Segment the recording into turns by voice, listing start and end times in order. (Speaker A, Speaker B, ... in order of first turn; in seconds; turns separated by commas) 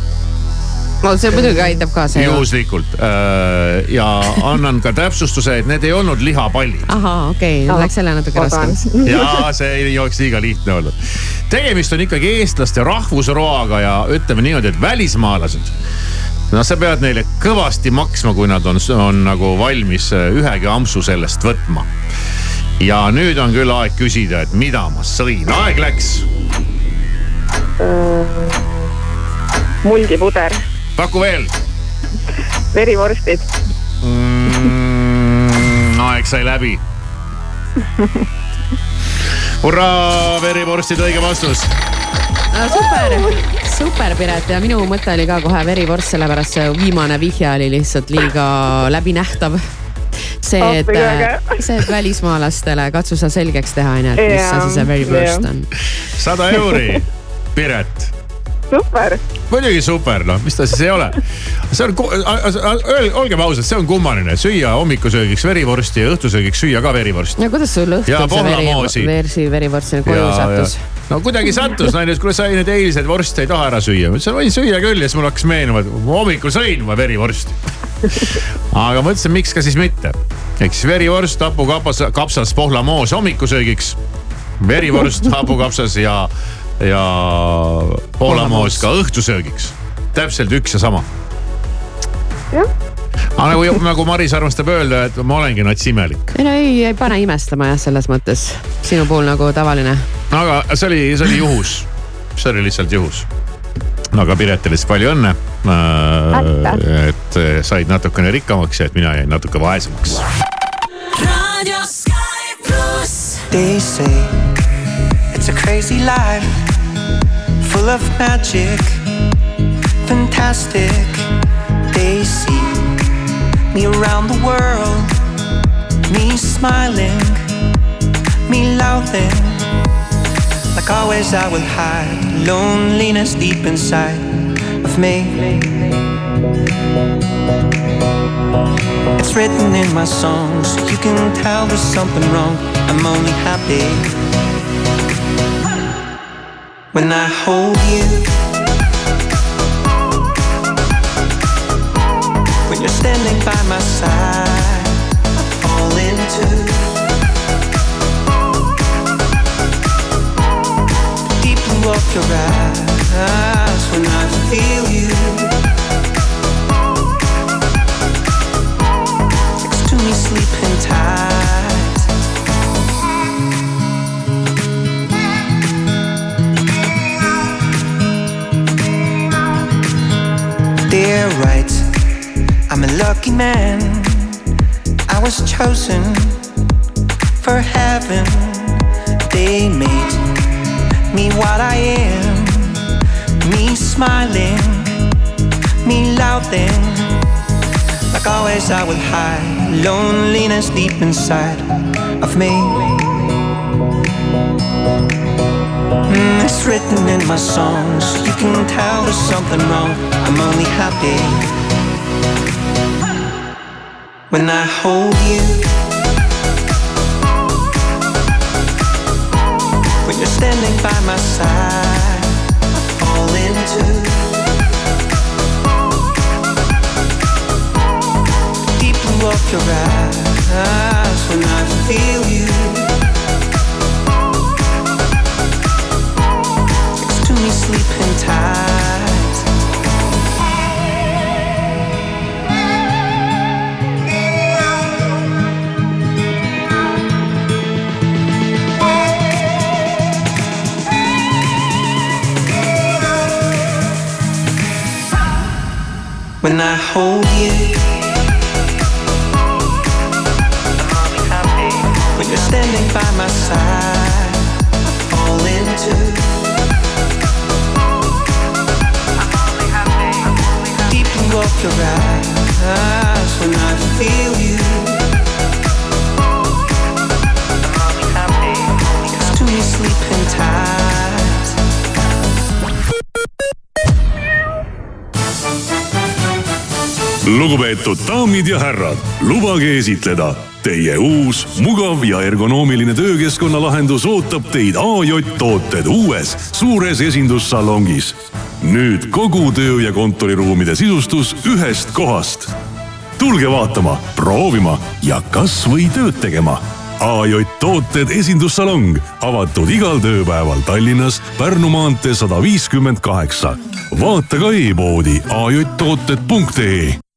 Speaker A: 1.0-2.5, Speaker B: 1.3-1.8, Speaker C: 2.1-6.9, Speaker A: 6.9-8.8, Speaker B: 7.7-9.4, Speaker C: 9.1-10.9, Speaker C: 11.5-15.7, Speaker C: 16.5-21.9, Speaker C: 22.8-26.3, Speaker B: 27.8-28.6, Speaker B: 29.8-30.6, Speaker C: 31.0-31.5, Speaker B: 32.7-33.5, Speaker C: 34.0-36.8, Speaker C: 39.6-41.7, Speaker A: 42.5-49.6, Speaker B: 42.7-43.4, Speaker A: 50.4-55.7, Speaker B: 50.6-51.6, Speaker B: 54.2-55.5, Speaker C: 56.2-58.1, Speaker B: 56.5-57.0, Speaker B: 58.7-59.2, Speaker C: 59.5-67.4, Speaker A: 67.4-70.8, Speaker C: 68.1-69.1, Speaker C: 70.0-77.6, Speaker C: 78.2-84.0, Speaker C: 84.6-91.1, Speaker A: 88.2-88.8, Speaker C: 93.4-96.3, Speaker A: 96.3-100.1, Speaker C: 100.3-103.3, Speaker C: 104.1-110.2, Speaker B: 106.3-106.8, Speaker D: 111.2-113.4, Speaker E: 113.5-114.4, Speaker E: 115.3-116.6, Speaker E: 117.6-119.0, Speaker E: 120.0-121.3, Speaker E: 121.9-122.9, Speaker E: 123.7-125.1, Speaker E: 126.1-127.4, Speaker E: 128.5-129.7, Speaker E: 130.8-134.3, Speaker E: 134.8-135.9, Speaker E: 139.2-144.2, Speaker E: 146.9-148.3, Speaker E: 152.7-155.0, Speaker E: 155.6-157.0, Speaker E: 161.4-165.6, Speaker E: 169.6-172.1, Speaker E: 180.9-181.9, Speaker E: 182.7-184.4, Speaker E: 185.1-186.4, Speaker E: 187.4-190.2, Speaker E: 191.1-192.8, Speaker E: 193.4-194.9, Speaker E: 195.8-197.2, Speaker E: 198.1-201.7, Speaker E: 202.2-203.1, Speaker E: 206.1-211.5, Speaker E: 214.3-215.7, Speaker E: 220.1-222.3, Speaker E: 222.9-224.4, Speaker E: 228.8-233.0, Speaker E: 237.0-239.4, Speaker E: 256.4-258.0, Speaker E: 261.0-264.5, Speaker E: 265.1-266.5, Speaker E: 270.8-275.1, Speaker E: 277.9-281.6, Speaker F: 287.3-302.5, Speaker F: 303.2-317.0